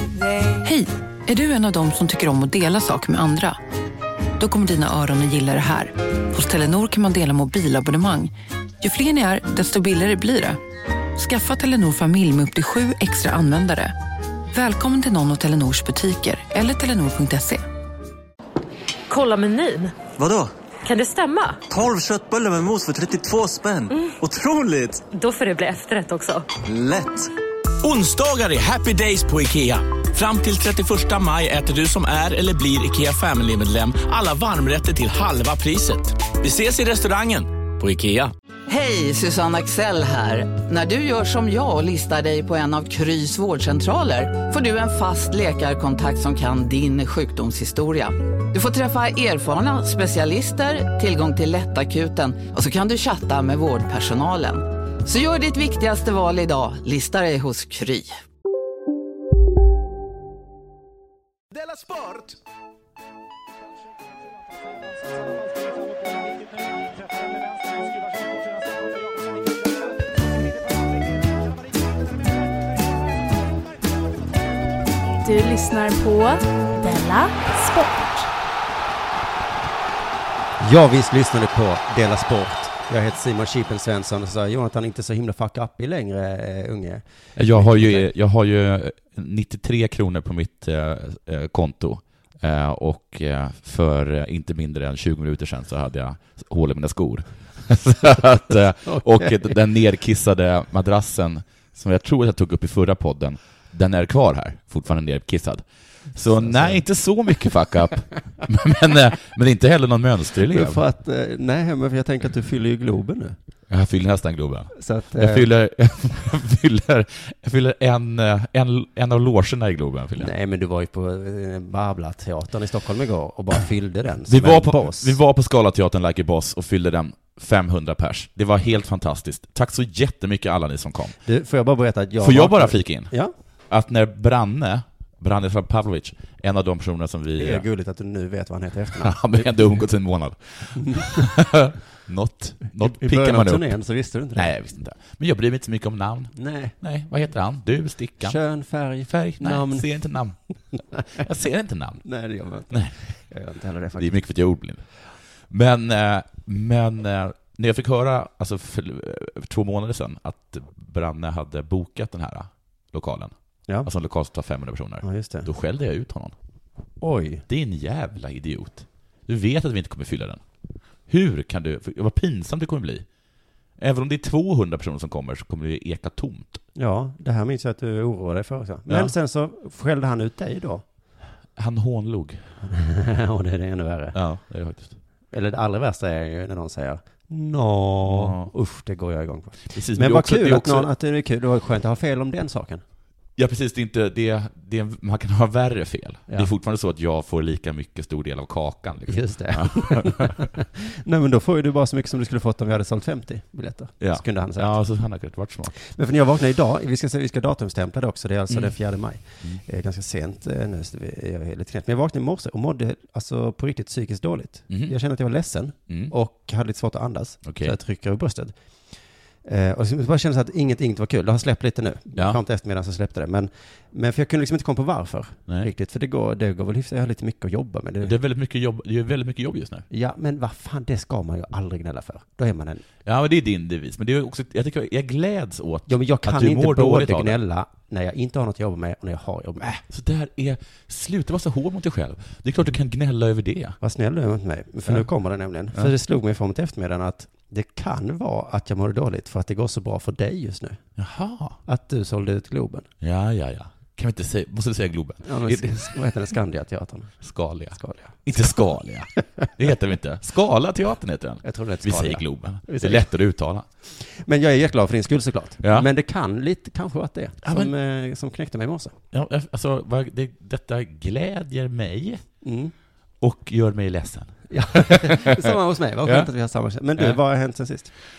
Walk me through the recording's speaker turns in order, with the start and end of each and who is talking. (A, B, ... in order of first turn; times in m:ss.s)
0:00.6-0:03.6 A
0:04.4-0:10.6 A
0:11.2-0:13.9 A
0:14.5-0:17.6 A
0:19.1-0:20.0 B
0:20.2-0:20.5 C
0:20.8-0:21.6 B
0:21.7-0:25.0 C
0:23.9-0:24.1 B
0:25.1-0:26.4 B
0:26.6-0:27.3 C
0:27.8-0:38.3 D
0:38.7-0:58.2 E
1:15.2-1:18.3 F
1:20.6-1:28.1 G
1:27.4-1:50.8 H
1:38.8-1:39.6 G
1:46.4-1:46.8 G
1:50.5-1:53.4 G
1:53.7-2:00.3 H
1:54.7-1:55.5 G
2:00.2-2:05.2 G
2:04.3-2:11.2 H
2:11.2-2:13.3 G
2:12.2-2:13.1 H
2:13.7-2:17.6 H
2:17.4-2:19.8 G
2:19.0-2:23.8 H
2:20.8-2:21.3 G
2:22.7-2:24.5 G
2:24.3-2:28.4 H
2:26.4-2:26.7 G
2:28.2-2:29.9 G
2:29.0-2:30.4 H
2:31.0-2:32.0 H
2:32.0-2:34.2 G
2:32.7-2:33.1 H
2:34.0-2:46.3 H
2:45.0-2:45.5 G
2:47.0-2:47.4 G
2:47.5-2:50.4 H
2:51.1-2:53.0 H
2:53.8-2:56.6 H
2:56.7-3:00.8 G
2:58.9-2:59.1 H
3:01.6-3:02.5 H
3:02.6-3:04.2 G
3:04.1-3:05.0 H
3:05.3-3:12.8 G
3:08.0-3:08.5 H
3:09.7-3:10.9 H
3:13.4-3:20.4 H
3:19.1-3:24.8 G
3:24.0-3:25.7 H
3:25.7-3:38.5 G
3:28.5-3:28.8 H
3:34.7-3:34.9 H
3:37.4-3:37.7 H
3:39.4-3:48.2 G
3:48.0-3:49.8 H
3:49.9-3:52.8 G
3:53.0-3:57.4 H
3:55.9-3:59.8 G
3:59.8-4:03.8 H
4:03.8-4:10.8 G
4:11.0-4:11.6 H
4:11.6-4:12.9 G
4:13.0-4:15.9 H
4:15.2-4:18.2 G
4:17.2-4:23.6 H
4:21.4-4:23.1 G
4:23.8-4:29.0 G
4:25.6-4:25.9 H
4:27.4-4:27.7 H
4:29.1-4:32.3 H
4:32.4-4:32.7 G
4:33.2-4:36.3 H
4:34.5-4:37.9 G